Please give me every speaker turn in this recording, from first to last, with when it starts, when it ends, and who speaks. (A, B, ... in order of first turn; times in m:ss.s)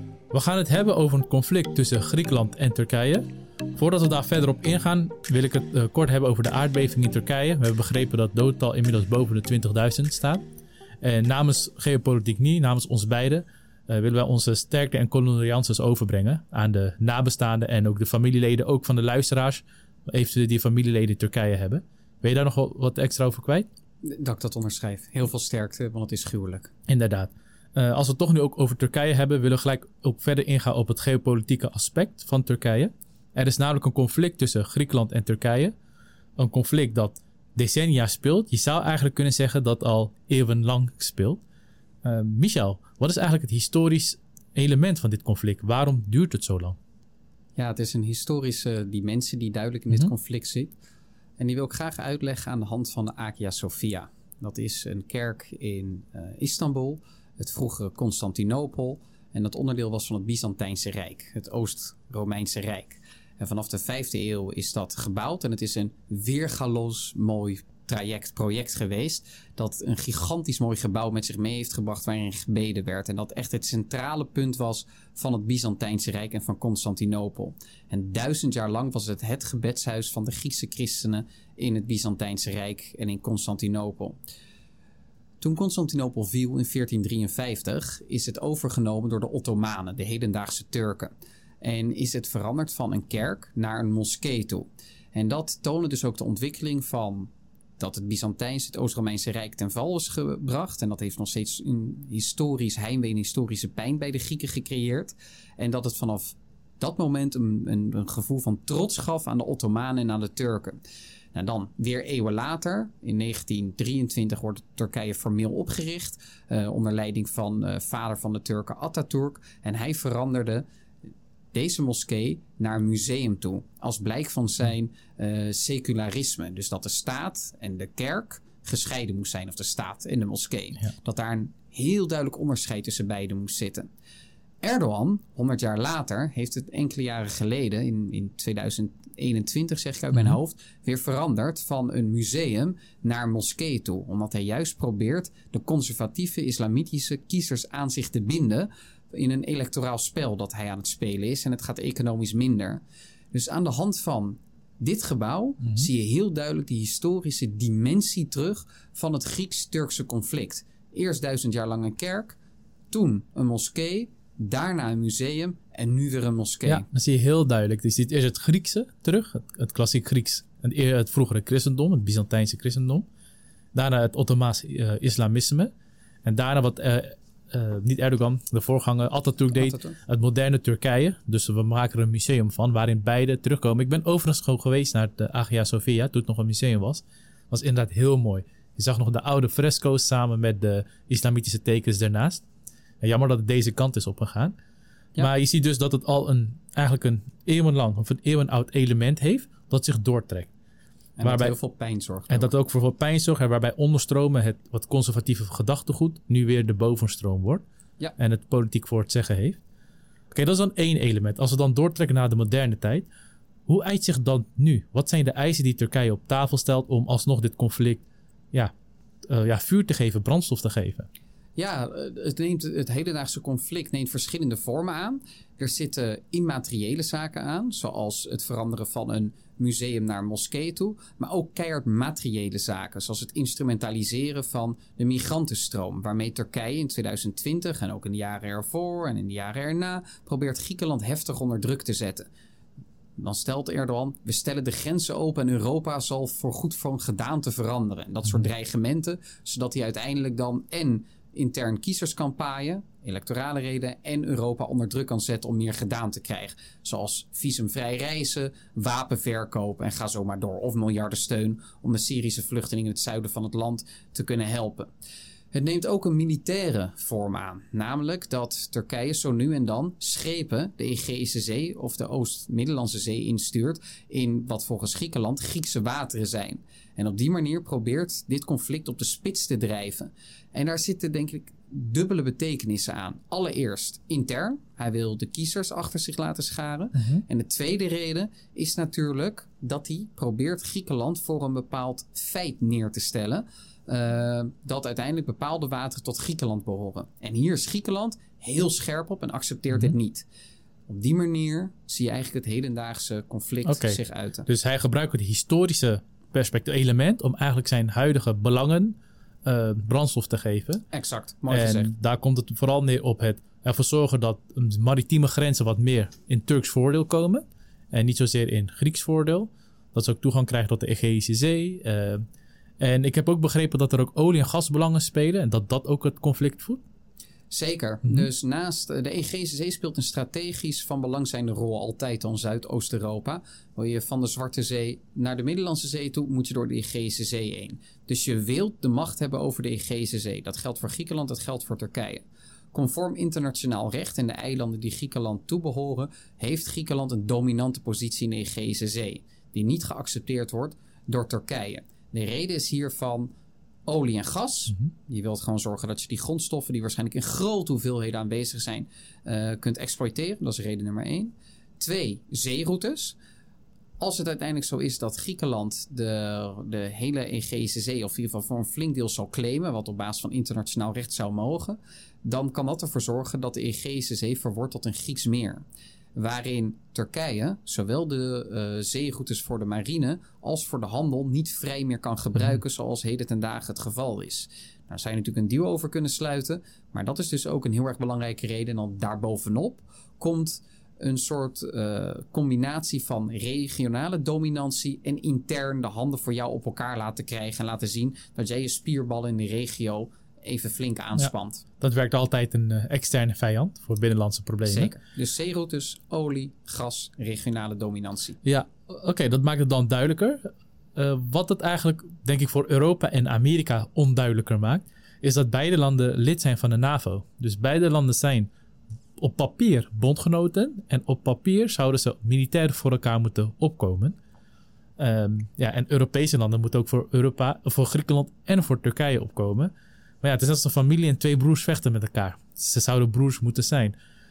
0:00.3-0:03.2 A
0:03.8-0:10.4 A
0:11.0-0:23.7 A
0:24.0-0:26.7 B
0:26.9-0:35.7 A
0:36.4-0:41.4 A
0:42.0-0:46.8 A
0:47.6-0:50.8 B
0:51.4-1:24.2 B
1:25.4-1:50.8 B
1:51.3-2:00.6 B
2:01.5-2:13.9 B
2:14.6-2:32.8 B
2:33.3-2:42.4 B
2:42.9-2:46.8 B
2:46.7-2:53.0 A
2:53.7-2:55.7 A
2:56.2-3:12.4 A
2:59.6-3:00.0 B
3:13.0-3:14.5 A
3:15.2-3:20.5 A
3:21.2-3:22.5 B
3:21.2-3:21.5 A
3:22.3-3:27.6 A
3:28.2-3:29.6 A
3:30.3-3:33.1 A
3:33.7-3:38.7 A
3:39.3-3:41.1 A
3:41.6-4:02.3 B
4:03.2-4:24.9 B
4:25.5-5:00.3 B
4:47.0-4:47.2 A
5:00.9-5:04.5 B
5:03.6-5:10.8 A
5:10.9-5:11.9 B
5:11.5-5:22.2 A
5:22.8-5:26.8 A
5:27.5-5:53.3 B
5:53.9-6:03.2 B
6:04.0-6:15.6 B
6:16.2-6:41.6 B
6:41.2-6:44.9 A
6:44.6-6:48.4 B
6:48.4-6:58.5 A
6:59.2-7:04.2 A
7:05.0-7:13.9 A